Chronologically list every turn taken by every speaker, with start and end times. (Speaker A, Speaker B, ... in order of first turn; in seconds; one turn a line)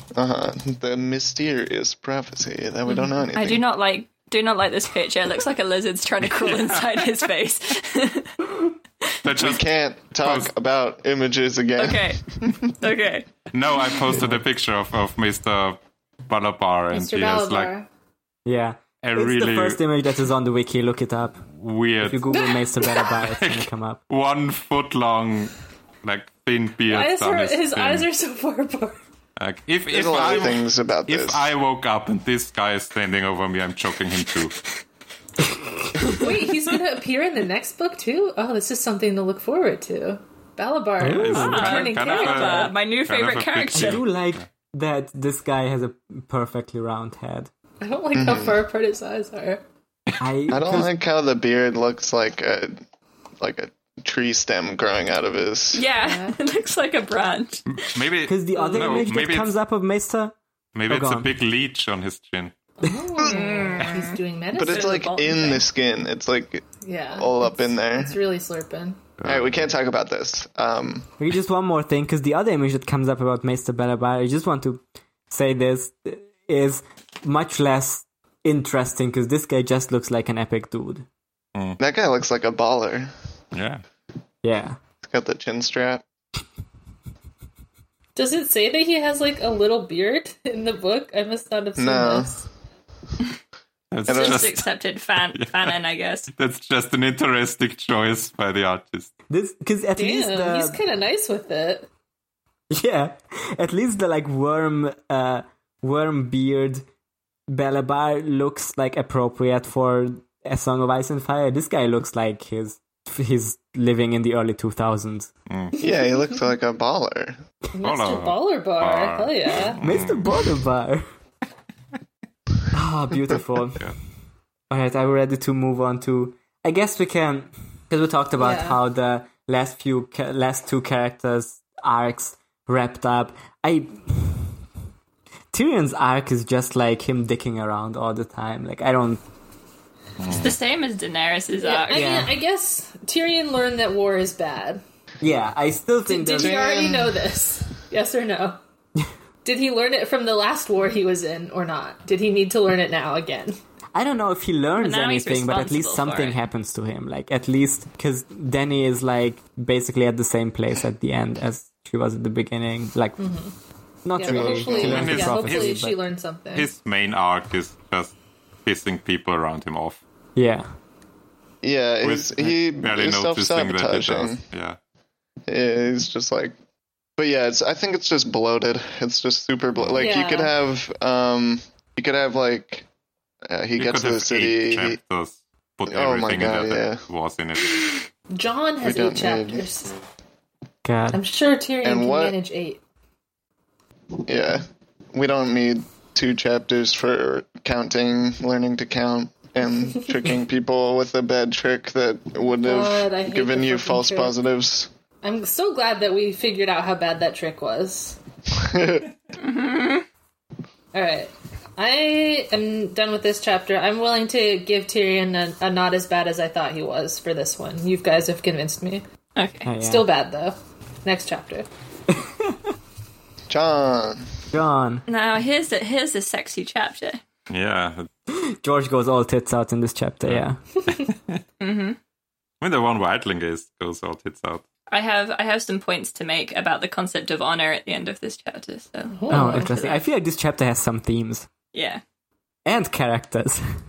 Speaker A: 0.1-3.6
Speaker B: 2.9-8.5
Speaker C: 9.2-9.6
Speaker A: 9.3-12.6
Speaker C: 10.2-10.5
Speaker B: 11.8-13.3
Speaker C: 13.5-17.7
Speaker D: 14.2-14.4
Speaker E: 16.9-17.9
Speaker D: 18.4-21.4
Speaker C: 19.0-19.8
Speaker C: 21.5-22.4
Speaker D: 22.0-24.0
Speaker E: 22.3-22.9
Speaker C: 23.2-28.1
Speaker E: 26.9-29.0
Speaker C: 29.4-34.5
Speaker A: 29.9-31.5
Speaker E: 36.1-42.7
Speaker D: 41.0-41.7
Speaker C: 41.0-44.5
Speaker B: 41.3-44.0
Speaker D: 43.7-47.5
Speaker E: 47.8-49.6
Speaker A: 48.1-48.6
Speaker D: 50.2-50.9
Speaker A: 50.5-52.8
Speaker A: 53.4-55.8
Speaker B: 55.7-57.9
Speaker E: 56.0-56.4
Speaker C: 57.7-59.5
Speaker D: 58.3-60.3
Speaker E: 58.6-58.8
Speaker C: 60.7-62.5
Speaker D: 60.9-61.3
Speaker E: 62.8-65.1
Speaker B: 63.2-65.7
Speaker A: 64.5-68.2
Speaker E: 66.8-69.0
Speaker C: 69.2-69.7
Speaker A: 69.2-71.1
Speaker D: 71.2-81.0
Speaker A: 81.8-83.1
Speaker C: 83.5-83.8
Speaker D: 84.4-84.8
Speaker A: 85.0-86.0
Speaker E: 88.1-92.5
Speaker A: 91.8-92.4
Speaker C: 93.9-94.6
Speaker A: 94.1-94.4
Speaker B: 94.1-96.3
Speaker C: 95.3-95.7
Speaker C: 96.3-99.1
Speaker D: 99.3-100.8
Speaker E: 100.0-101.9
Speaker D: 102.7-106.8
Speaker D: 107.5-115.3
Speaker C: 115.5-115.8
Speaker A: 115.8-117.4
Speaker E: 117.7-119.8
Speaker C: 117.8-120.5
Speaker D: 119.8-121.0
Speaker D: 122.7-123.9
Speaker D: 124.7-134.6
Speaker E: 128.4-128.8
Speaker D: 135.5-139.2
Speaker C: 140.2-140.6
Speaker B: 140.2-142.0
Speaker E: 141.6-144.8
Speaker D: 141.9-142.3
Speaker D: 145.2-146.6
Speaker E: 146.1-148.6
Speaker A: 146.3-147.2
Speaker E: 149.4-153.6
Speaker D: 153.9-163.2
Speaker B: 154.8-156.4
Speaker E: 163.2-163.5
Speaker D: 164.0-165.9
Speaker E: 164.1-166.7
Speaker A: 164.3-165.2
Speaker C: 164.7-165.8
Speaker C: 166.5-170.0
Speaker D: 170.3-170.7
Speaker A: 171.6-174.4
Speaker C: 172.0-174.8
Speaker A: 175.5-176.5
Speaker A: 177.2-182.9
Speaker C: 179.8-180.1
Speaker E: 180.0-180.5
Speaker A: 183.5-185.0
Speaker C: 183.8-188.0
Speaker A: 185.9-187.0
Speaker E: 188.3-190.0
Speaker A: 188.8-189.7
Speaker D: 190.8-191.2
Speaker E: 191.1-192.8
Speaker A: 191.8-192.3
Speaker A: 194.2-204.9
Speaker E: 202.6-204.3
Speaker E: 205.2-208.2
Speaker A: 208.5-209.1
Speaker B: 209.4-210.1
Speaker E: 210.9-219.0
Speaker B: 219.3-219.7
Speaker D: 219.6-220.1
Speaker E: 219.8-221.7
Speaker A: 223.5-224.2
Speaker D: 224.5-225.0
Speaker B: 225.1-227.2
Speaker C: 227.5-228.1
Speaker D: 228.3-230.6
Speaker C: 230.2-231.4
Speaker B: 231.6-232.0
Speaker C: 232.6-234.6
Speaker B: 234.9-240.0
Speaker E: 239.2-239.8
Speaker D: 239.3-241.5
Speaker B: 241.7-242.0
Speaker D: 242.6-243.6